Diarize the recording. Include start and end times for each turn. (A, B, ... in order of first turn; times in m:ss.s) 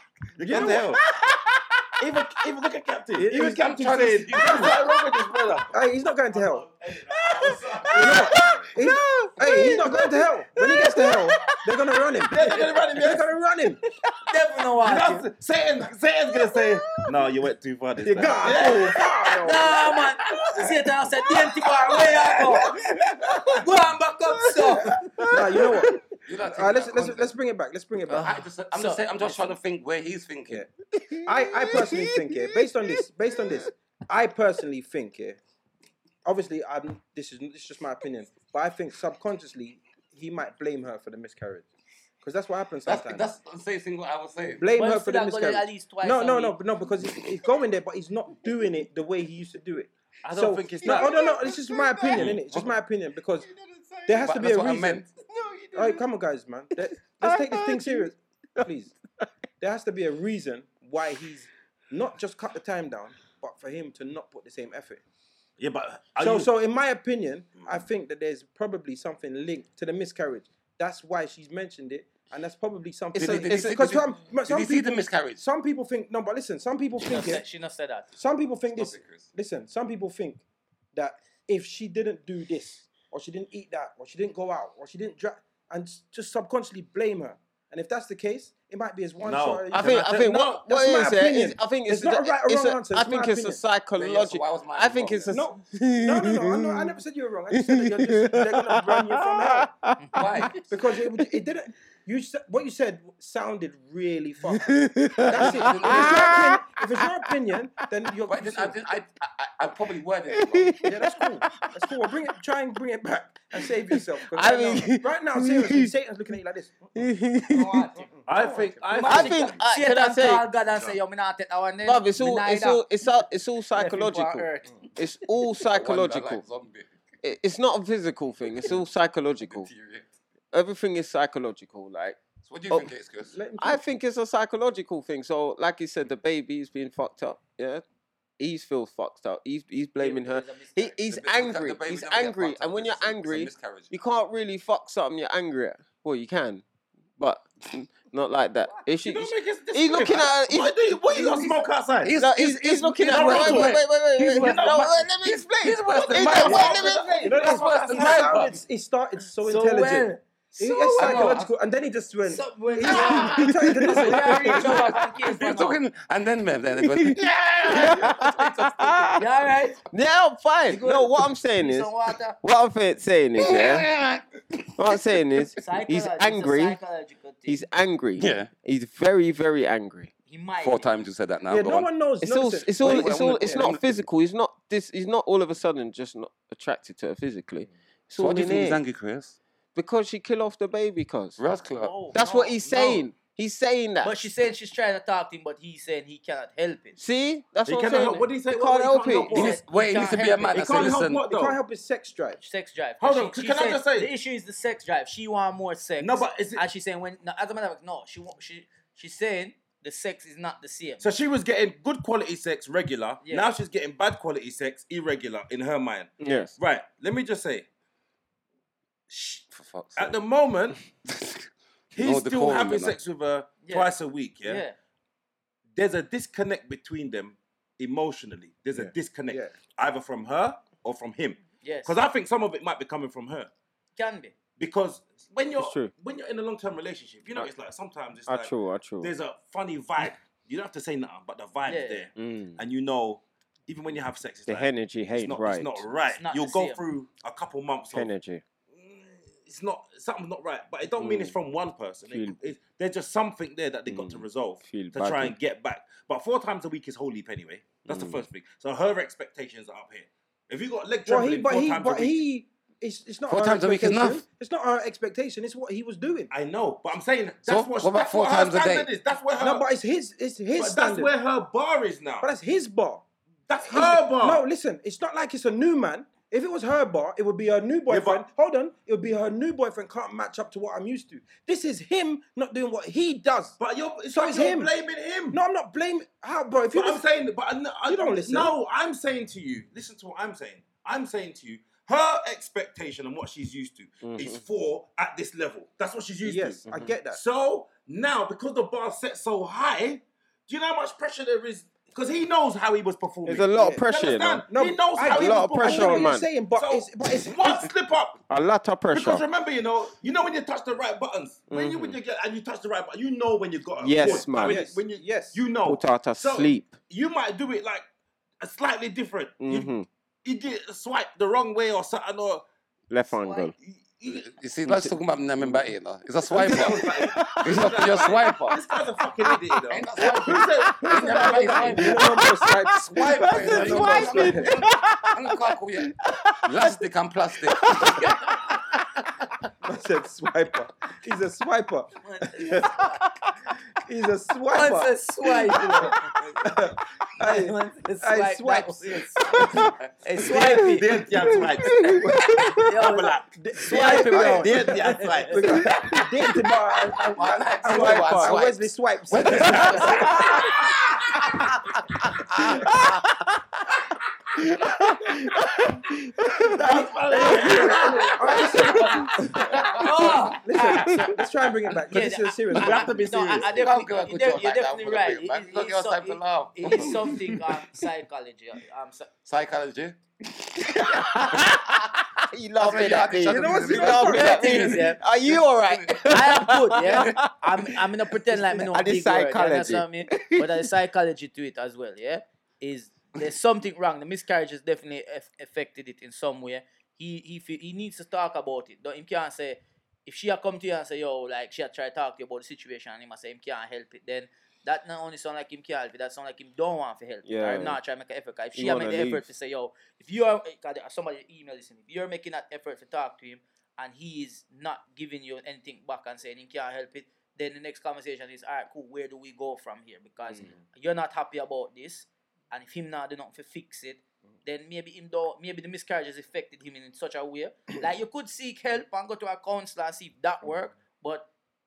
0:00.4-0:01.0 A
0:00.4-0:00.9 B
0:00.5-0:01.9 C
0:02.0-0:05.7 A
0:03.2-0:03.6 B
0:03.4-0:04.9 D
0:05.7-0:06.7 B
0:06.3-0:08.7 A
0:07.1-0:11.6 C
0:07.9-0:13.8 B
0:12.3-0:13.2 A
0:14.3-0:15.3 E
0:14.8-0:19.0 A
0:16.3-0:17.3 C
0:18.0-0:19.8 B
0:18.6-0:18.9 C
0:19.4-0:22.7 E
0:22.1-0:23.4 A
0:22.7-0:23.6 C
0:23.3-0:25.0 E
0:24.4-0:26.0 C
0:25.3-0:28.3 B
0:26.2-0:27.3 D
0:28.1-0:29.5 E
0:28.2-0:30.7 D
0:31.0-0:33.6 C
0:31.2-0:35.4 B
0:36.2-0:41.7 B
0:42.2-0:43.2 B
0:42.9-0:44.7 D
0:44.6-0:53.5 B
0:44.8-0:46.6 E
0:50.2-0:51.2 A
0:50.8-0:52.3 C
0:52.2-0:52.7 D
0:53.4-0:54.3 C
0:54.1-0:55.0 B
0:54.2-0:55.1 D
0:55.2-0:56.1 C
0:55.8-0:59.0 B
0:56.8-0:58.7 C
0:59.6-1:05.0 B
1:05.6-1:06.5 A
1:06.2-1:17.4 B
1:13.2-1:13.8 C
1:13.2-1:15.4 D
1:17.0-1:18.1 E
1:18.2-1:20.4 B
1:18.7-1:19.3 D
1:20.9-1:33.6 B
1:29.2-1:30.6 A
1:29.7-1:37.0 C
1:34.0-1:35.4 D
1:35.3-1:39.7 B
1:37.5-1:40.5 C
1:40.0-1:40.5 E
1:40.2-1:40.6 D
1:40.7-1:48.8 B
1:44.5-1:47.2 C
1:45.3-1:46.5 D
1:48.3-1:50.8 D
1:50.3-1:51.9 C
1:50.8-1:57.0 B
1:53.9-1:55.9 C
1:57.0-1:57.9 C
1:57.5-1:58.1 E
1:58.2-1:59.2 B
1:58.3-1:59.6 A
1:58.9-2:02.8 E
1:59.0-2:00.4 C
2:01.8-2:06.4 C
2:03.7-2:04.7 E
2:05.6-2:06.9 D
2:07.2-2:09.7 C
2:09.4-2:10.0 D
2:10.5-2:12.2 C
2:12.4-2:13.4 D
2:13.3-2:13.8 B
2:13.6-2:17.8 C
2:18.4-2:26.6 C
2:20.0-2:21.0 E
2:21.1-2:23.9 D
2:27.2-2:30.7 C
2:29.0-2:32.1 A
2:31.1-2:38.6 D
2:32.2-2:37.3 C
2:33.0-2:35.1 A
2:36.0-2:38.4 A
2:37.2-2:44.8 B
2:39.4-2:41.4 E
2:41.0-2:41.5 D
2:42.3-2:45.8 E
2:42.8-2:49.2 D
2:43.3-2:44.6 C
2:46.8-2:49.2 C
2:49.2-2:49.8 E
2:49.9-2:53.9 C
2:50.7-2:52.4 E
2:53.4-2:55.0 D
2:54.8-2:56.8 C
2:55.6-2:57.6 E
2:57.5-3:00.1 C
2:58.2-2:58.5 D
3:00.3-3:00.9 E
3:00.6-3:01.9 D
3:01.5-3:03.7 B
3:02.2-3:08.8 C
3:02.8-3:04.1 D
3:08.2-3:09.4 D
3:09.8-3:11.4 C
3:11.4-3:11.9 D
3:11.8-3:13.0 E
3:12.1-3:14.2 C
3:14.0-3:17.0 E
3:17.0-3:19.4 C
3:17.7-3:19.6 A
3:19.3-3:20.9 E
3:19.3-3:21.2 D
3:20.5-3:21.6 A
3:21.2-3:22.4 B
3:22.4-3:31.0 E
3:23.0-3:24.1 A
3:26.0-3:26.6 A
3:31.0-3:37.7 A
3:33.2-3:33.5 E
3:36.2-3:36.5 C
3:39.1-3:39.4 A
3:39.5-3:40.2 D
3:40.0-3:40.8 A
3:41.1-3:43.0 D
3:42.0-3:44.6 A
3:43.6-3:43.9 E
3:44.4-3:44.8 E
3:45.8-3:53.5 A
3:48.8-3:49.5 B
3:51.6-3:52.0 E
3:54.0-3:54.3 E
3:54.6-4:08.1 A
3:55.6-3:55.9 C
3:58.3-3:59.1 C
4:01.7-4:02.1 E
4:02.2-4:02.6 C
4:04.5-4:05.8 C
4:06.1-4:06.8 E
4:07.9-4:08.4 C
4:08.7-4:22.2 A
4:11.0-4:11.4 C
4:12.1-4:12.4 C
4:13.9-4:15.4 C
4:17.9-4:18.2 C
4:21.0-4:26.3 B
4:23.3-4:24.2 D
4:26.3-4:29.7 A
4:27.5-4:28.9 D
4:29.4-4:31.1 B
4:30.6-4:32.3 A
4:32.2-4:33.0 B
4:33.5-4:34.4 A
4:33.6-4:43.6 B
4:37.9-4:38.2 A
4:43.6-4:45.4 A
4:44.1-4:44.7 B
4:45.3-4:47.0 B
4:46.7-5:08.2 A
4:47.9-4:48.6 B
4:54.0-4:54.4 C
4:56.2-4:57.2 B
5:03.3-5:04.5 C
5:03.5-5:03.8 B
5:04.5-5:07.7 B
5:05.0-5:06.3 C
5:08.3-5:09.2 C
5:08.9-5:17.8 A
5:11.5-5:12.0 C
5:13.8-5:14.6 C
5:14.0-5:15.4 B
5:15.6-5:16.8 C
5:18.4-5:19.7 A
5:19.4-5:19.9 C
5:20.2-5:22.4 A
5:22.9-5:23.5 C
5:23.2-5:23.5 E
5:23.6-5:24.3 A
5:24.1-5:28.6 D
5:24.7-5:25.6 C
5:26.3-5:31.9 A
5:26.3-5:28.7 C
5:29.2-5:29.6 C
5:29.7-5:32.2 D
5:30.2-5:36.8 C
5:31.0-5:34.6 B
5:32.8-5:38.1 D
5:37.4-5:38.6 C
5:39.6-5:42.8 B
5:42.0-5:43.1 E
5:43.8-5:44.9 B
5:44.5-5:46.1 E
5:45.5-5:49.7 B
5:47.2-5:51.0 E
5:49.4-5:49.7 C
5:50.3-5:52.6 C
5:50.5-5:56.0 A
5:52.6-5:55.4 E
5:53.3-6:00.5 B
5:53.7-5:54.5 C
5:55.5-5:56.0 C
5:56.7-6:01.6 D
5:57.6-5:58.4 C
5:59.5-6:00.4 C
6:01.9-6:03.7 C
6:02.4-6:02.8 D
6:04.4-6:06.6 C
6:06.4-6:09.3 A
6:06.7-6:13.1 B
6:07.5-6:10.4 D
6:08.8-6:09.4 C
6:09.8-6:11.2 E
6:11.9-6:19.1 E
6:12.5-6:13.5 A
6:13.4-6:17.2 D
6:16.9-6:17.2 C
6:19.2-6:21.8 D
6:20.6-6:27.6 C
6:22.6-6:27.2 D
6:23.2-6:24.7 B
6:24.2-6:25.0 E
6:26.0-7:11.3 E
6:28.3-6:30.6 C
6:47.2-6:47.8 C
6:48.5-6:49.3 C